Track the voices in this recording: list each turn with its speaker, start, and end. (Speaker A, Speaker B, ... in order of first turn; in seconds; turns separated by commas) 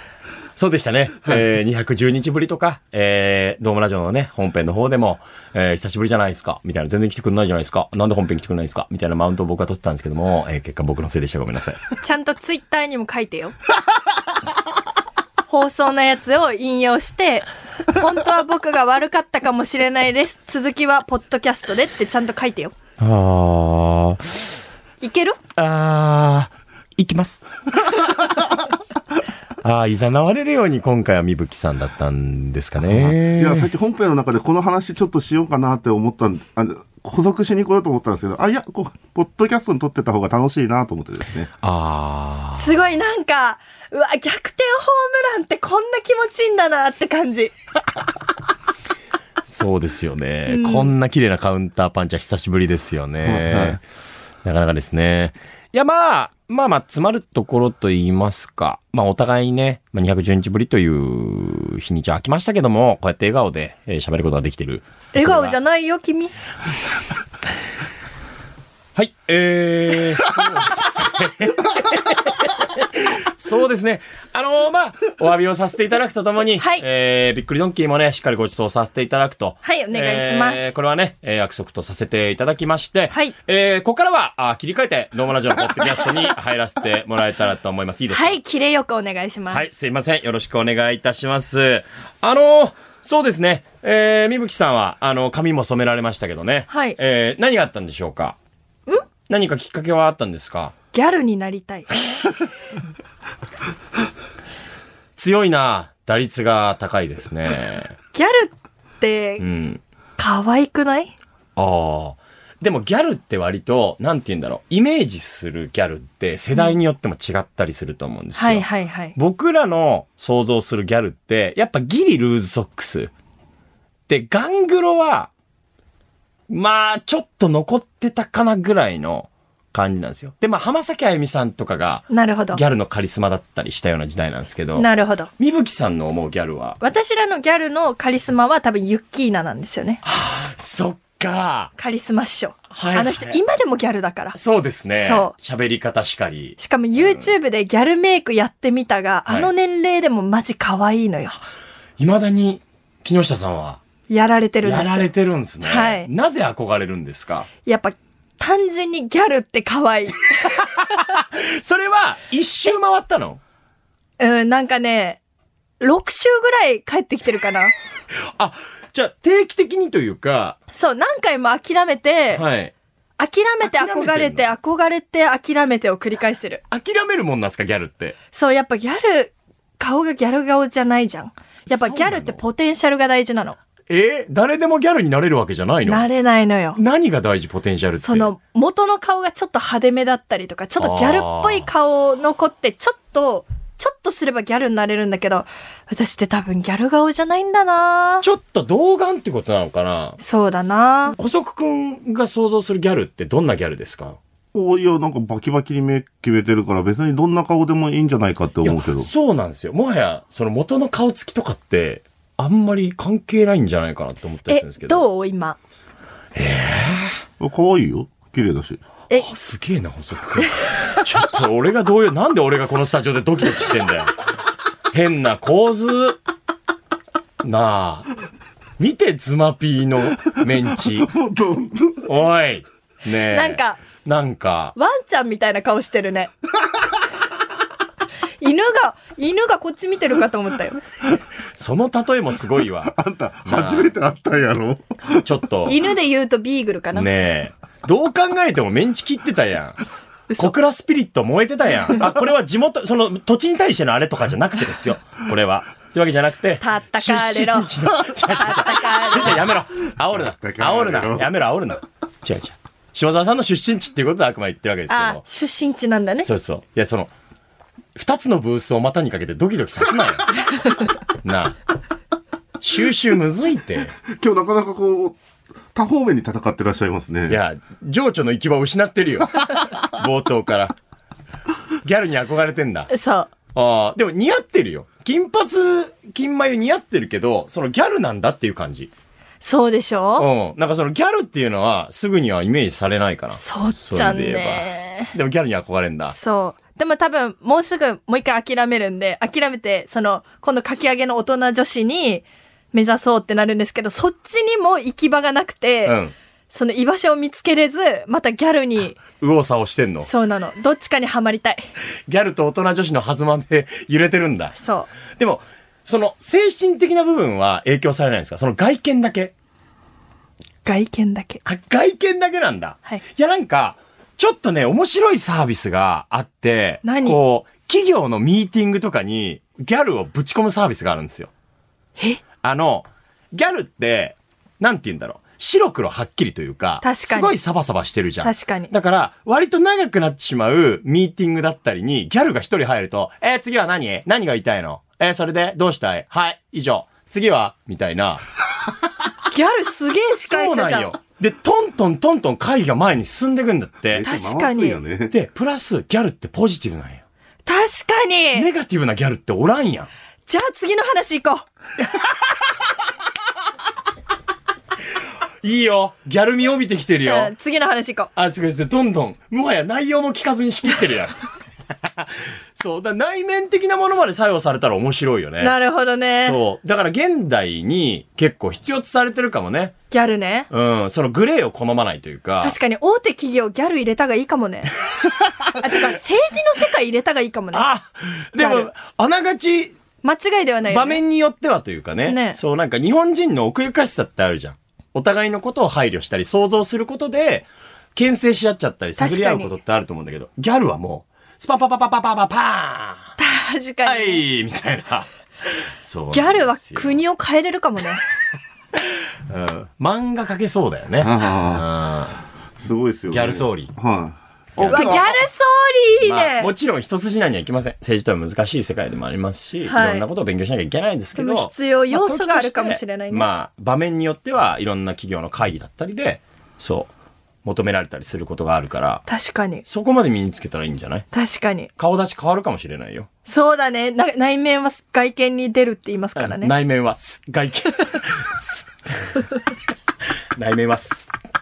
Speaker A: 0.6-11.8, Speaker B: 12.0-13.5, Speaker B: 15.5-22.7, Speaker A: 23.0-24.4, Speaker B: 25.0-25.4, Speaker A: 25.6-27.5, Speaker A: 29.6-33.7, Speaker C: 32.9-41.5, Speaker A: 41.6-42.8, Speaker B: 42.5-47.5, Speaker A: 49.5-53.8, Speaker B: 50.5-50.9, Speaker C: 53.2-53.8, Speaker A: 54.4-65.5, Speaker B: 65.1-66.3, Speaker A: 69.0-88.4, Speaker B: 76.6-76.8, Speaker B: 79.6-80.6, Speaker B: 88.1-89.6, Speaker A: 89.5-98.3, Speaker B: 96.7-97.0, Speaker A: 99.3-100.7, Speaker B: 100.9-102.2, Speaker A: 105.2-107.9, Speaker B: 108.1-109.4, Speaker A: 109.4-109.8, Speaker B: 110.2-111.1, Speaker A: 111.5-123.1, Speaker B: 118.3-119.1, Speaker A: 124.1-125.3, Speaker A: 126.5-134.9, Speaker B: 132.1-132.6, Speaker B: 134.8-135.3, Speaker A: 135.4-136.8, Speaker B: 136.8-140.0, Speaker A: 140.0-141.7, Speaker B: 141.8-144.4, Speaker A: 142.7-143.4, Speaker A: 144.3-147.3, Speaker B: 145.0-145.3, Speaker B: 146.6-151.4, Speaker A: 149.3-149.5, Speaker A: 152.0-153.8, Speaker B: 154.1-155.1, Speaker A: 154.6-157.5, Speaker B: 155.6-156.1, Speaker B: 157.7-161.1, Speaker A: 160.5-163.4, Speaker B: 164.2-165.2, Speaker B: 165.8-167.7, Speaker A: 168.2-170.6, Speaker B: 170.7-172.4, Speaker A: 172.3-172.7, Speaker B: 173.2-176.6, Speaker A: 173.6-174.5, Speaker A: 176.7-178.2, Speaker B: 178.3-183.6, Speaker A: 181.7-182.4, Speaker A: 183.9-186.1, Speaker B: 185.8-186.8, Speaker A: 186.7-188.3, Speaker B: 188.0-198.2, Speaker A: 190.8-191.7, Speaker A: 198.2-200.2, Speaker B: 200.2-201.1, Speaker A: 201.1-204.2, Speaker C: 204.5-209.1, Speaker A: 208.6-215.0, Speaker B: 214.5-215.6, Speaker A: 216.3-217.2, Speaker C: 217.4-218.8, Speaker A: 219.1-224.1, Speaker A: 224.9-226.2, Speaker A: 227.4-228.1, Speaker A: 228.8-231.1, Speaker C: 230.8-232.1, Speaker A: 232.1-234.7, Speaker B: 233.3-233.8, Speaker B: 234.8-236.3, Speaker B: 238.4-240.8, Speaker A: 241.5-243.9, Speaker C: 242.8-245.2, Speaker A: 245.1-245.8, Speaker B: 245.7-247.1, Speaker A: 246.9-249.8, Speaker A: 250.4-265.2, Speaker B: 256.6-259.4, Speaker C: 260.2-261.3, Speaker B: 264.9-266.3, Speaker A: 266.2-267.1, Speaker A: 267.9-270.4, Speaker A: 271.2-271.6, Speaker A: 272.6-274.0, Speaker C: 274.1-275.2, Speaker C: 275.7-277.4, Speaker A: 277.3-280.7, Speaker A: 281.8-282.9, Speaker B: 282.9-283.3, Speaker A: 283.5-288.9, Speaker B: 289.4-290.3, Speaker A: 290.2-296.1, Speaker B: 293.4-295.1, Speaker B: 296.1-306.0, Speaker A: 305.9-306.1, Speaker B: 306.5-309.0, Speaker A: 309.2-310.1, Speaker B: 310.0-311.6, Speaker A: 312.1-314.6, Speaker B: 314.6-314.9, Speaker A: 315.1-319.3, Speaker B: 320.6-321.4, Speaker A: 321.4-331.3, Speaker B: 326.8-327.2, Speaker B: 332.0-332.2, Speaker A: 332.4-348.2, Speaker B: 336.8-337.3, Speaker B: 338.2-338.7, Speaker B: 349.3-350.9, Speaker A: 350.3-354.0, Speaker C: 353.9-355.1, Speaker B: 354.0-354.8, Speaker A: 355.1-357.0, Speaker B: 357.4-358.5, Speaker A: 358.3-359.9, Speaker B: 360.2-361.4, Speaker A: 361.8-362.1, Speaker A: 365.4-367.3, Speaker B: 367.0-368.1, Speaker A: 368.1-371.2, Speaker A: 371.8-375.5, Speaker B: 375.4-376.4, Speaker A: 376.2-379.8, Speaker B: 379.9-380.5, Speaker A: 380.5-382.6, Speaker B: 382.4-384.7, Speaker B: 385.6-387.6, Speaker A: 387.5-389.7, Speaker B: 388.4-388.7, Speaker B: 390.0-391.0, Speaker A: 390.7-403.1, Speaker B: 392.1-392.4, Speaker B: 399.0-399.5, Speaker B: 403.2-404.2, Speaker A: 403.8-405.1, Speaker A: 405.6-407.0, Speaker B: 406.1-408.0, Speaker A: 409.3-412.2, Speaker C: 411.0-411.6, Speaker C: 412.6-415.0, Speaker A: 413.1-413.7, Speaker A: 414.6-415.2, Speaker B: 414.7-416.5, Speaker A: 416.0-426.9, Speaker B: 419.6-420.0, Speaker B: 421.1-423.2, Speaker A: 427.4-429.0, Speaker B: 429.1-429.6, Speaker A: 429.7-431.1, Speaker B: 431.1-431.7, Speaker A: 431.8-433.1, Speaker B: 433.2-436.5, Speaker A: 436.1-439.3, Speaker A: 440.4-441.1